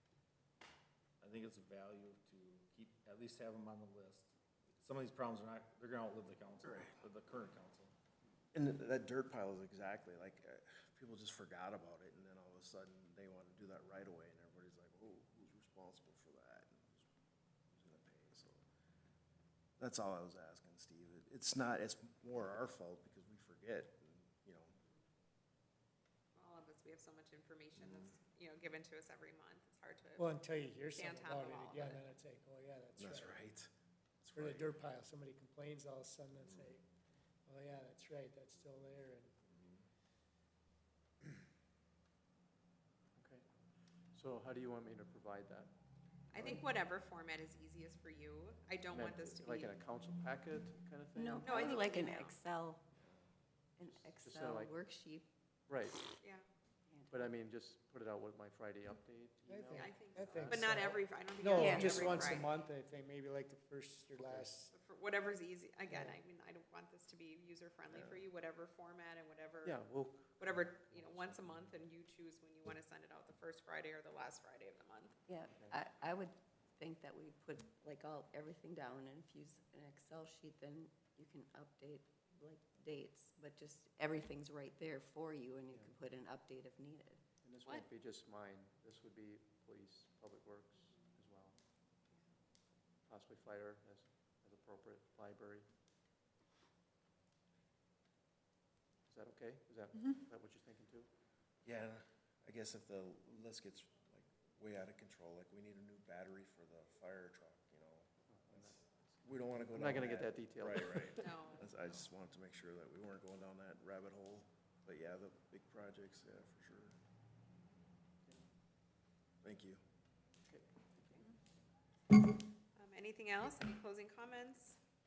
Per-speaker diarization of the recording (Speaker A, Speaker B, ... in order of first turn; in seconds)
Speaker A: 1.2-7.9
Speaker B: 6.6-7.0, 8.5-17.1, 17.7-18.6, 19.8-24.8, 27.8-28.1, 33.0-34.7, 36.4-36.8, 39.4-39.9, 67.9-68.2, 101.6-117.0, 119.4-119.8
Speaker C: 26.3-30.3, 30.9-32.0, 46.3-49.8, 51.4-52.4, 59.7-62.5, 64.7-75.2, 111.2-111.7, 122.8-124.8
Speaker D: 30.2-33.4, 34.3-36.8, 37.5-39.3, 59.5-64.7, 65.9-66.1
Speaker E: 43.1-43.5, 44.1-45.7, 46.3-46.6, 48.9-51.6, 53.8-54.8, 55.7-56.1, 57.1-60.6, 64.1-64.5, 69.6-71.8, 75.5-75.8, 87.4-91.6, 93.1-95.7, 99.1-101.1, 108.3-111.6, 120.5-121.3
Speaker F: 51.1-52.8, 53.8-55.3, 56.9-57.3, 61.5-62.4, 75.3-87.2